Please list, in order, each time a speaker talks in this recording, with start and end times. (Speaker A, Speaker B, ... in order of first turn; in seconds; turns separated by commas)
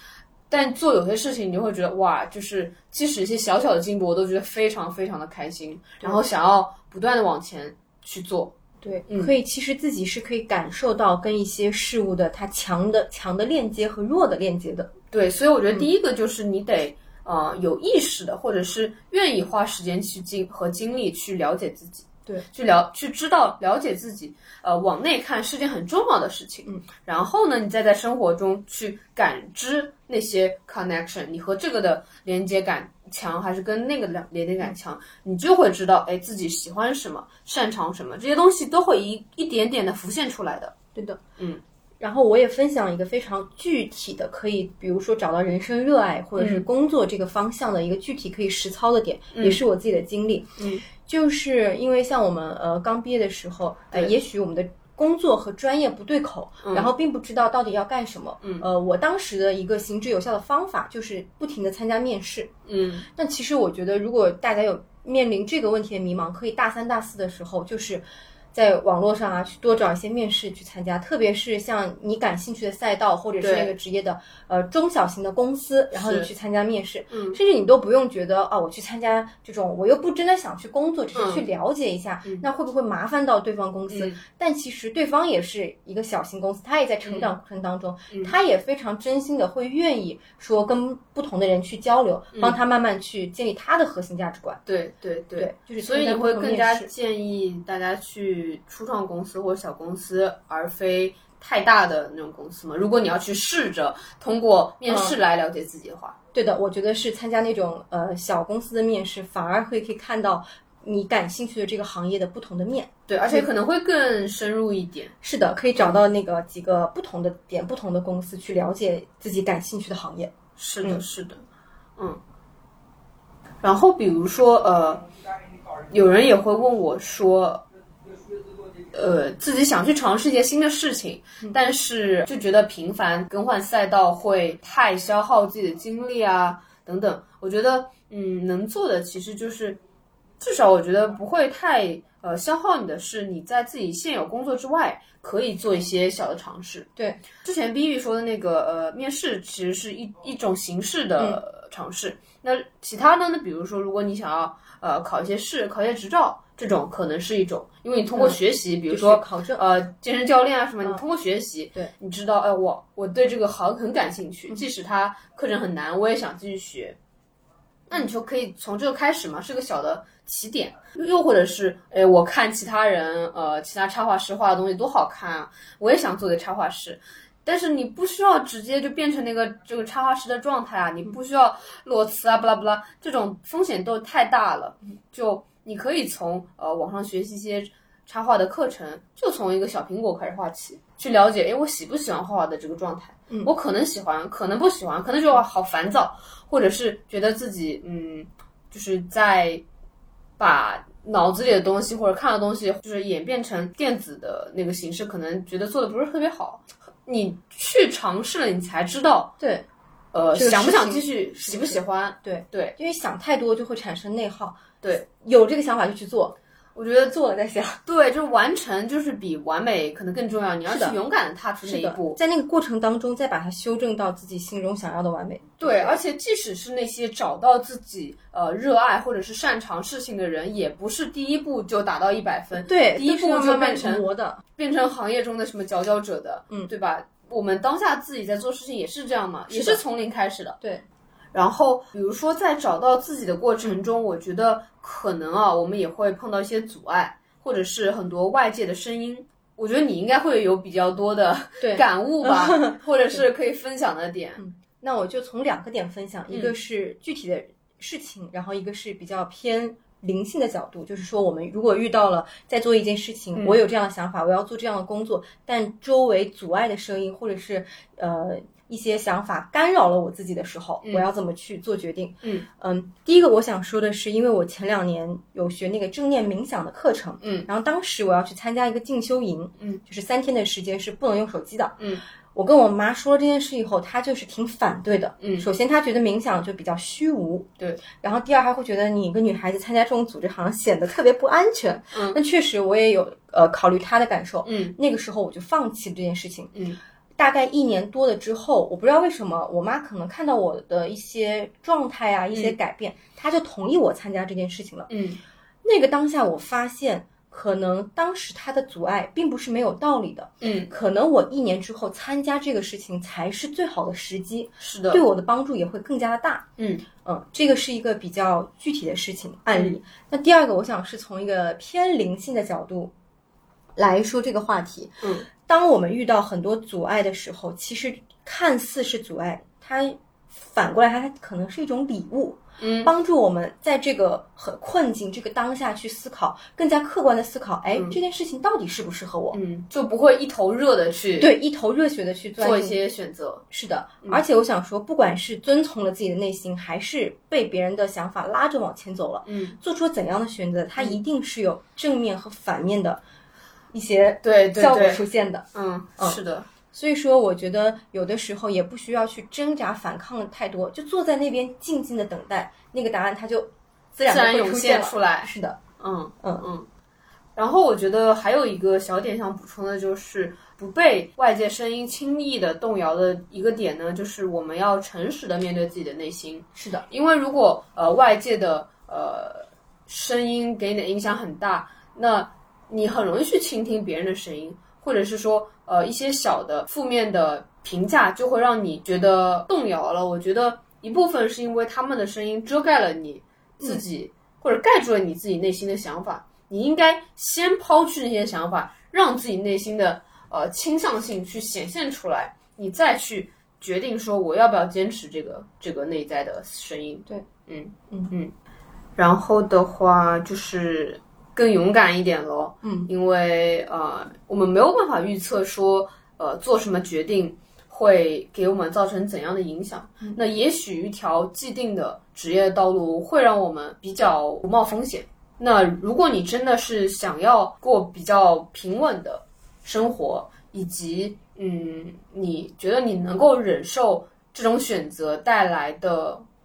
Speaker A: 0.5-8.6, Speaker B: 8.8-14.9, Speaker A: 9.1-9.3, Speaker A: 15.1-40.7, Speaker B: 40.9-41.2, Speaker B: 42.0-62.5, Speaker A: 46.4-46.6, Speaker A: 49.3-49.6, Speaker A: 50.6-50.8, Speaker A: 56.6-56.9, Speaker A: 62.7-63.1, Speaker B: 63.1-94.6, Speaker A: 73.4-73.7, Speaker A: 75.9-76.3, Speaker A: 77.1-77.4, Speaker A: 81.1-81.4, Speaker A: 83.9-84.2, Speaker A: 87.0-87.3, Speaker A: 92.3-92.6, Speaker A: 94.7-106.2, Speaker B: 95.4-96.9, Speaker B: 104.8-105.2, Speaker B: 106.3-113.5, Speaker A: 113.1-115.1, Speaker B: 115.2-121.0, Speaker A: 120.6-121.4, Speaker A: 123.6-125.1, Speaker A: 125.9-127.6, Speaker A: 128.9-139.8, Speaker A: 140.4-146.9, Speaker B: 146.9-147.2, Speaker A: 147.4-167.0, Speaker B: 158.1-159.6, Speaker A: 167.9-199.6, Speaker A: 200.4-209.3, Speaker B: 209.4-209.7, Speaker A: 210.1-212.7, Speaker B: 210.3-216.3, Speaker A: 216.8-217.1, Speaker B: 217.1-217.8, Speaker A: 217.8-222.2, Speaker B: 220.7-221.0, Speaker B: 221.6-226.0, Speaker A: 225.6-234.0, Speaker B: 232.6-234.4, Speaker A: 234.6-240.6, Speaker B: 239.5-239.8, Speaker A: 241.3-254.4, Speaker B: 251.6-253.2, Speaker B: 254.4-281.8, Speaker A: 256.3-256.5, Speaker A: 263.3-263.6, Speaker A: 270.8-271.1, Speaker A: 277.2-277.5, Speaker B: 282.3-296.5, Speaker A: 285.2-285.4, Speaker A: 291.9-292.2, Speaker A: 294.4-294.8, Speaker B: 297.2-304.9, Speaker A: 304.9-305.2, Speaker B: 305.6-316.5, Speaker A: 310.4-310.7, Speaker A: 314.6-315.0, Speaker A: 316.6-316.8, Speaker B: 317.0-322.9, Speaker B: 323.8-339.4, Speaker A: 325.0-325.3, Speaker A: 332.6-332.9, Speaker A: 337.7-338.0, Speaker A: 339.3-341.3, Speaker B: 341.2-342.8, Speaker A: 342.4-343.4, Speaker B: 343.5-353.0, Speaker A: 349.2-349.6, Speaker B: 353.7-355.5, Speaker A: 354.2-355.0, Speaker A: 355.5-356.5, Speaker B: 356.7-365.6, Speaker A: 364.0-366.7, Speaker A: 367.4-408.3, Speaker B: 376.5-376.9, Speaker A: 409.0-436.2, Speaker B: 412.6-412.9